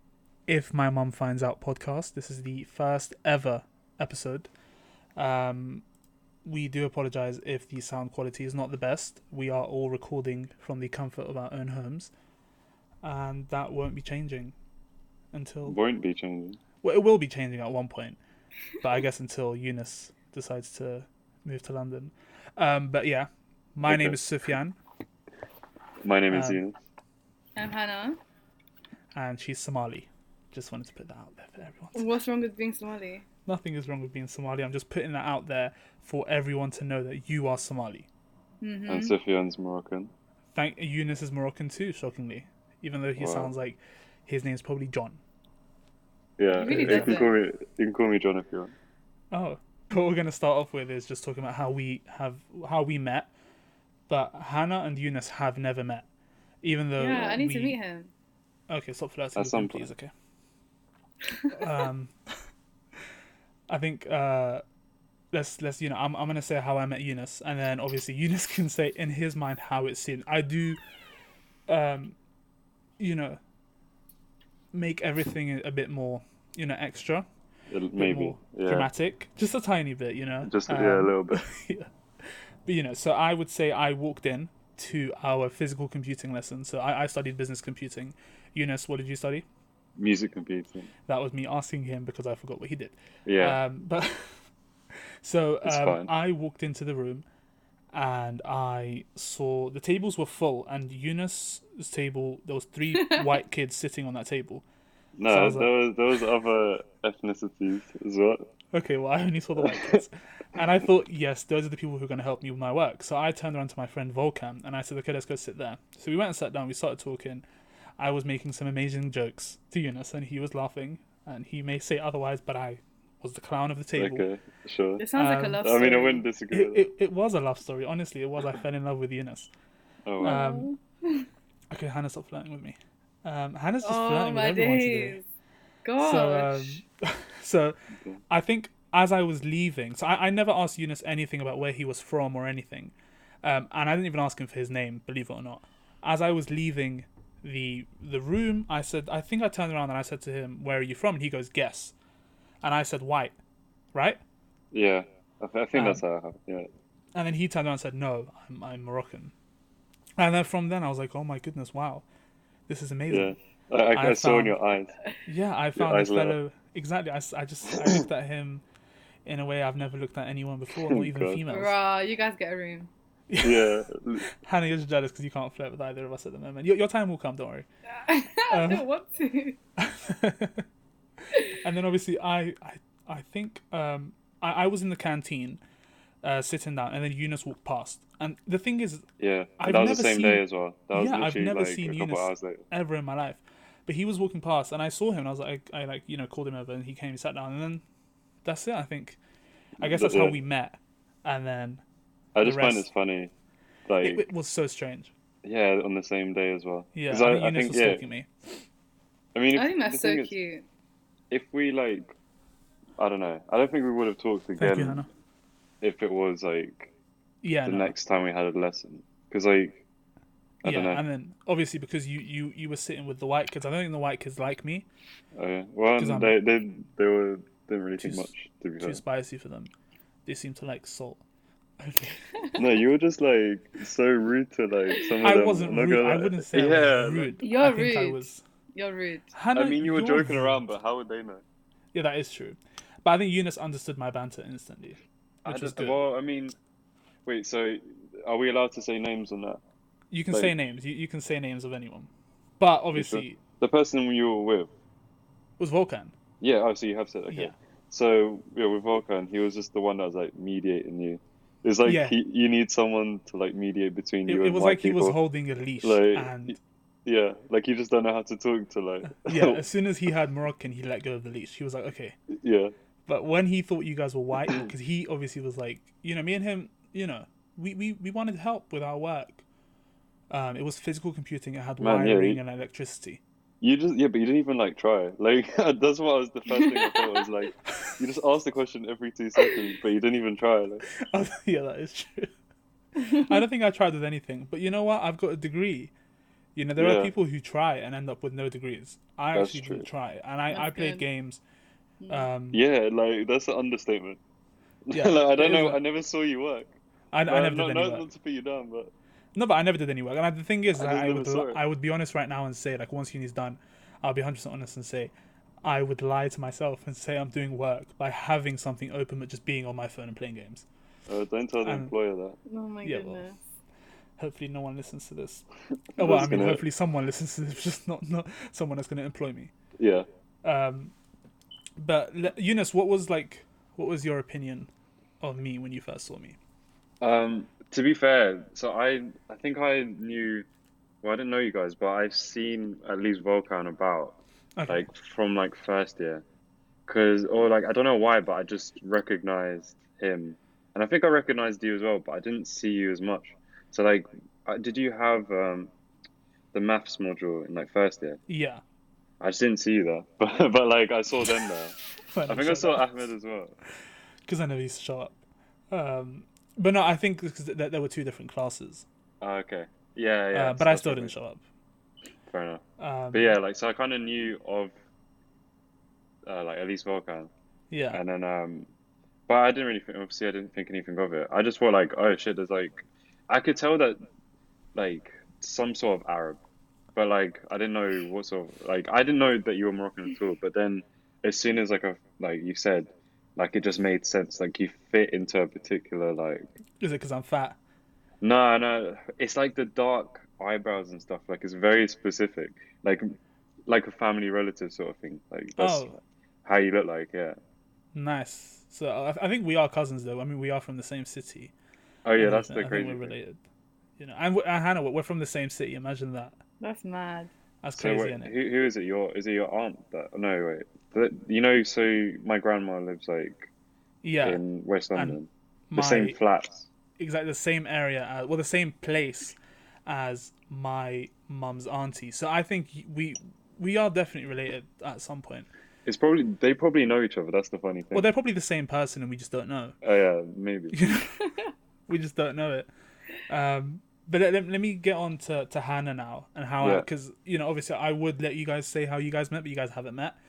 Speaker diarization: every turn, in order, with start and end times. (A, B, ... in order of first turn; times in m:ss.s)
0:00.5-0:04.5 A
0:05.2-0:05.8 A
0:06.4-0:12.1 A
0:13.0-0:14.6 A
0:15.3-0:15.8 A
0:15.6-0:16.6 B
0:16.8-0:18.2 A
0:18.8-0:24.8 A
0:23.8-0:24.2 B
0:26.0-0:26.8 B
0:26.3-0:26.6 A
0:27.6-0:28.2 C
0:29.2-0:32.0 A
0:32.0-0:33.2 C
0:33.5-0:38.1 A
0:38.6-0:39.1 C
0:38.9-0:40.1 B
0:40.6-0:45.2 A
0:43.2-0:43.5 B
0:46.4-0:48.7 B
0:46.6-0:47.3 C
0:46.6-0:47.3 A
0:49.3-0:53.3 A
0:54.1-0:56.1 A
0:56.6-0:57.8 A
0:57.0-0:58.1 C
0:58.7-1:00.1 A
0:59.4-0:59.9 B
1:01.5-1:02.1 A
1:03.7-1:04.6 A
1:05.3-1:10.8 A
1:11.7-1:12.2 A
1:13.0-1:13.4 A
1:14.7-1:17.3 A
1:17.7-1:18.9 B
1:18.0-1:21.9 A
1:20.4-1:21.4 B
1:22.7-1:29.4 A
1:30.0-1:30.9 B
1:31.1-1:34.4 A
1:33.2-1:33.6 B
1:35.2-1:37.2 A
1:35.6-1:36.1 B
1:37.9-1:44.6 A
1:43.0-1:43.3 C
1:45.2-1:48.4 B
1:45.3-1:45.7 A
1:48.7-1:57.4 A
1:49.6-1:50.0 B
1:58.0-2:04.2 A
2:04.0-2:05.0 B
2:05.0-2:06.2 C
2:05.2-2:05.7 A
2:05.6-2:06.9 B
2:06.5-2:09.5 A
2:10.1-2:10.4 B
2:10.2-2:10.7 A
2:10.2-2:11.3 C
2:11.7-2:15.2 A
2:13.8-2:15.2 C
2:15.8-2:16.8 C
2:16.0-2:17.8 A
2:18.3-2:31.9 A
2:32.6-2:33.4 A
2:34.0-2:34.2 A
2:34.7-2:36.7 B
2:35.7-2:36.0 A
2:37.2-2:39.3 A
2:40.2-2:42.0 A
2:42.7-2:43.4 A
2:43.1-2:44.9 B
2:43.9-2:44.6 A
2:45.2-2:48.6 A
2:45.8-2:46.4 B
2:47.8-2:48.0 B
2:49.3-2:51.8 A
2:50.9-2:51.4 B
2:51.5-2:52.9 C
2:53.3-2:57.7 A
2:53.4-2:54.3 B
2:58.0-2:59.6 C
2:58.5-2:58.9 A
2:59.8-3:00.7 A
3:01.4-3:05.6 A
3:06.2-3:09.0 A
3:09.2-3:12.6 B
3:09.6-3:17.8 A
3:18.4-3:19.2 A
3:19.8-3:20.4 B
3:19.8-3:21.8 A
3:22.4-3:23.3 B
3:22.4-3:22.9 A
3:23.9-3:24.2 B
3:24.0-3:25.1 A
3:25.4-3:28.0 B
3:26.9-3:28.6 A
3:29.3-3:30.3 B
3:29.5-3:30.6 C
3:31.3-3:32.2 B
3:33.0-3:35.0 B
3:34.6-3:35.1 A
3:35.8-3:36.9 B
3:37.4-3:37.9 A
3:37.6-3:39.8 B
3:40.6-3:41.0 B
3:40.6-3:44.9 A
3:45.4-3:49.0 B
3:46.0-3:46.4 A
3:48.0-3:48.3 A
3:48.8-3:49.7 A
3:50.3-3:51.2 A
3:51.8-3:52.2 A
3:52.6-3:57.4 B
3:55.2-3:58.4 A
3:57.4-3:58.2 C
3:58.8-3:59.3 C
3:59.3-4:00.6 A
3:59.5-4:01.4 B
4:01.9-4:06.0 A
4:05.5-4:06.6 B
4:07.3-4:09.6 B
4:10.1-4:13.4 A
4:13.0-4:14.7 B
4:15.6-4:16.1 A
4:16.4-4:25.2 B
4:21.8-4:22.2 A
4:24.3-4:26.6 A
4:25.8-4:29.6 B
4:29.1-4:32.2 A
4:32.3-4:32.7 B
4:33.1-4:39.4 A
4:40.3-4:43.2 A
4:41.8-4:42.4 B
4:43.6-4:50.8 B
4:46.5-4:47.2 C
4:51.0-4:52.3 A
4:53.0-4:55.9 A
4:53.0-4:53.4 C
4:56.6-5:01.4 A
4:56.8-4:57.1 B
4:59.3-4:59.9 B
5:00.5-5:01.0 C
5:02.0-5:02.3 C
5:02.1-5:02.6 A
5:02.5-5:04.2 B
5:04.9-5:08.9 B
5:04.9-5:05.8 A
5:07.1-5:08.1 A
5:09.4-5:15.1 A
5:10.8-5:11.6 B
5:15.6-5:20.7 A
5:21.1-5:22.4 B
5:21.6-5:21.9 A
5:22.5-5:23.4 C
5:22.8-5:23.2 A
5:24.2-5:25.4 A
5:26.0-5:29.5 A
5:26.0-5:26.6 B
5:29.8-5:30.1 B
5:30.4-5:30.9 A
5:31.8-5:34.7 A
5:35.2-5:36.4 A
5:37.0-5:40.5 B
5:41.0-5:46.2 B
5:44.6-5:44.9 A
5:46.9-5:55.7 B
5:56.5-5:58.2 B
5:58.3-5:58.6 A
5:59.2-6:01.8 B
6:02.1-6:02.9 A
6:02.3-6:03.5 B
6:04.3-6:05.2 A
6:05.7-6:08.9 A
6:09.2-6:11.1 B
6:10.3-6:11.4 A
6:12.3-6:14.7 B
6:12.8-6:13.4 A
6:16.2-6:17.3 B
6:17.7-6:18.0 A
6:17.9-6:18.7 B
6:19.3-6:24.0 B
6:24.8-6:26.4 B
6:27.0-6:36.5 B
6:36.8-6:37.6 A
6:38.2-6:43.1 B
6:43.7-6:47.4 B
6:45.6-6:46.0 A
6:48.0-6:51.5 A
6:52.0-6:53.1 B
6:52.2-6:53.4 A
6:54.0-6:56.4 A
6:56.6-6:57.3 C
6:57.6-6:58.3 A
6:57.8-7:03.5 B
7:04.0-7:04.4 A
7:04.2-7:06.7 B
7:05.0-7:06.2 A
7:07.0-7:15.5 A
7:15.8-7:18.1 B
7:17.9-7:19.8 A
7:19.8-7:20.8 B
7:20.7-7:21.2 A
7:21.9-7:22.7 A
7:23.3-7:30.2 A
7:26.6-7:26.9 B